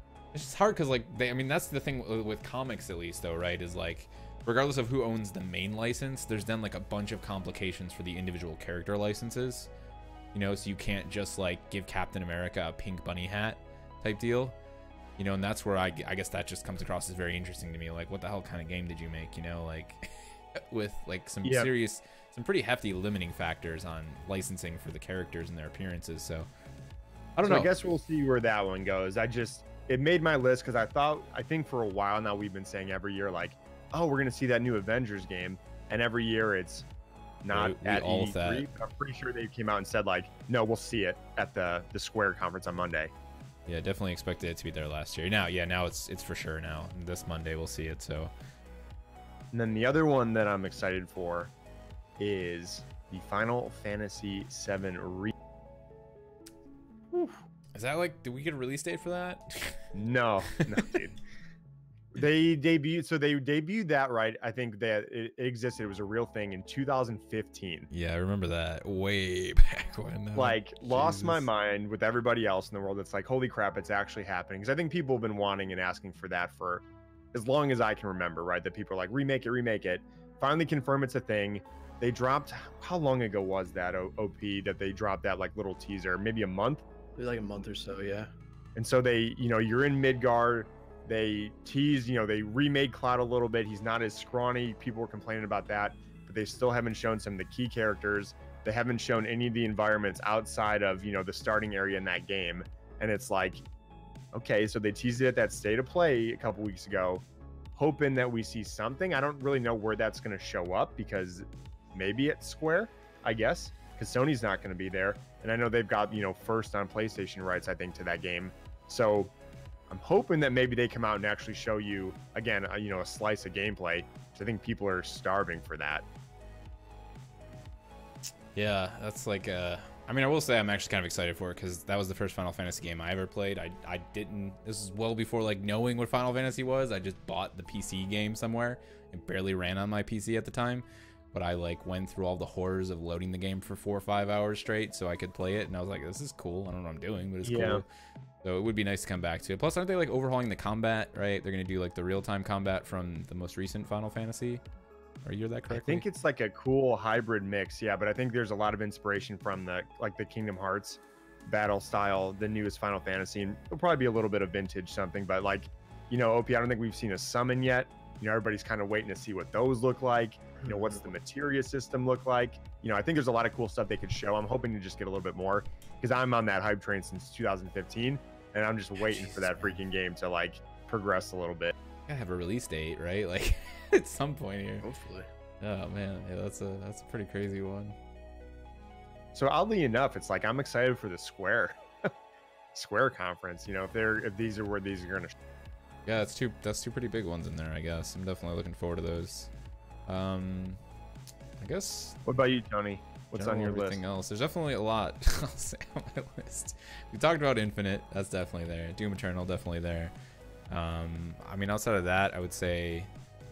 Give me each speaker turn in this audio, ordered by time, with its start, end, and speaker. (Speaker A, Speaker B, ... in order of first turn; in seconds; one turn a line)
Speaker A: 0.3-9.7
Speaker A: 10.3-14.6
Speaker A: 15.2-26.5
Speaker B: 21.4-21.7
Speaker A: 27.4-27.7
Speaker B: 27.4-36.9
Speaker B: 37.4-43.1
Speaker A: 37.5-38.6
Speaker A: 43.7-48.3
Speaker B: 49.5-51.5
Speaker B: 52.2-55.3
Speaker A: 57.1-59.9
Speaker B: 59.9-61.2
Speaker A: 60.5-60.9
Speaker B: 62.1-67.9
Speaker A: 67.9-71.5
Speaker B: 70.3-86.8
Speaker C: 87.2-88.3
Speaker B: 88.8-103.6
Speaker B: 104.3-107.2
Speaker B: 107.7-119.3
Speaker B: 119.9-126.0
Speaker A: 128.5-147.8
Speaker B: 147.4-147.8
Speaker A: 148.4-154.6
Speaker A: 155.2-156.0
Speaker B: 155.7-181.7
Speaker C: 170.6-170.9
Speaker A: 179.0-179.8
Speaker A: 182.1-184.9
Speaker C: 184.8-185.3
Speaker A: 185.6-187.9
Speaker B: 189.3-192.1
Speaker B: 192.7-195.3
Speaker A: 196.1-199.5
Speaker A: 200.1-200.8
Speaker A: 201.6-202.2
Speaker B: 202.2-204.0
Speaker A: 203.3-210.1
Speaker A: 210.7-213.1